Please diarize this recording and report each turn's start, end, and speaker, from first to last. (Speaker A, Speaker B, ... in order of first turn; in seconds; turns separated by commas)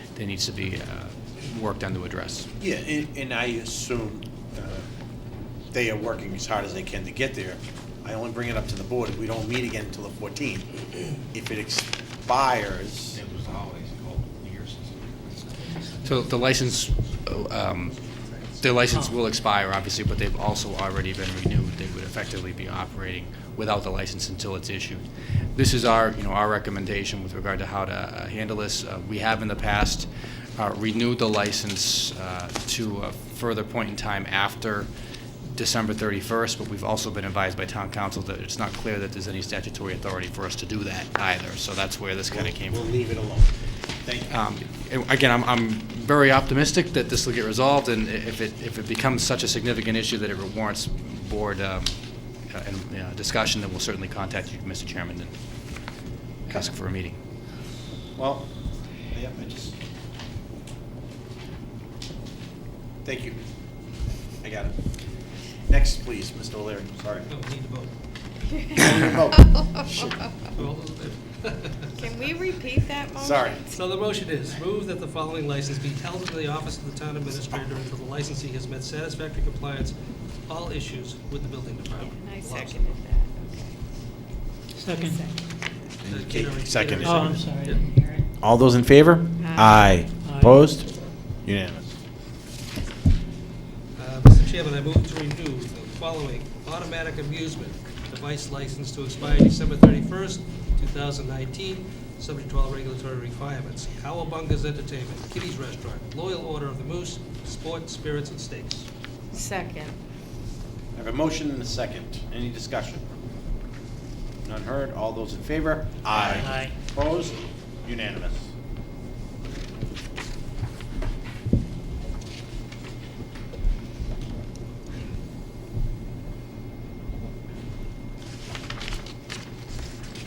Speaker A: 0.1-2.5, Speaker B: 2.6-4.9, Speaker B: 5.7-13.6, Speaker C: 13.6-14.9, Speaker D: 15.4-16.3, Speaker A: 16.0-18.0, Speaker A: 18.6-25.0, Speaker A: 25.5-34.9, Speaker A: 35.5-43.0, Speaker B: 42.3-43.5, Speaker B: 44.0-44.3, Speaker A: 44.3-51.9, Speaker A: 52.5-55.3, Speaker A: 56.5-57.2, Speaker B: 58.1-58.5, Speaker B: 59.1-59.7, Speaker B: 63.0-63.4, Speaker B: 64.4-64.8, Speaker B: 65.7-67.3, Speaker D: 67.3-67.9, Speaker E: 68.5-68.8, Speaker B: 68.7-70.2, Speaker D: 70.5-72.0, Speaker E: 72.0-73.7, Speaker B: 73.2-73.7, Speaker D: 73.7-83.0, Speaker E: 82.0-83.8, Speaker F: 84.8-85.2, Speaker E: 84.9-85.5, Speaker B: 86.0-87.4, Speaker D: 86.1-87.9, Speaker F: 87.0-88.2, Speaker C: 87.1-87.6, Speaker B: 88.4-90.9, Speaker E: 89.4-90.0, Speaker B: 91.4-92.0, Speaker D: 94.0-108.9, Speaker E: 109.3-110.0, Speaker B: 110.9-113.0, Speaker B: 114.4-118.5, Speaker F: 116.4-116.6, Speaker C: 116.4-116.7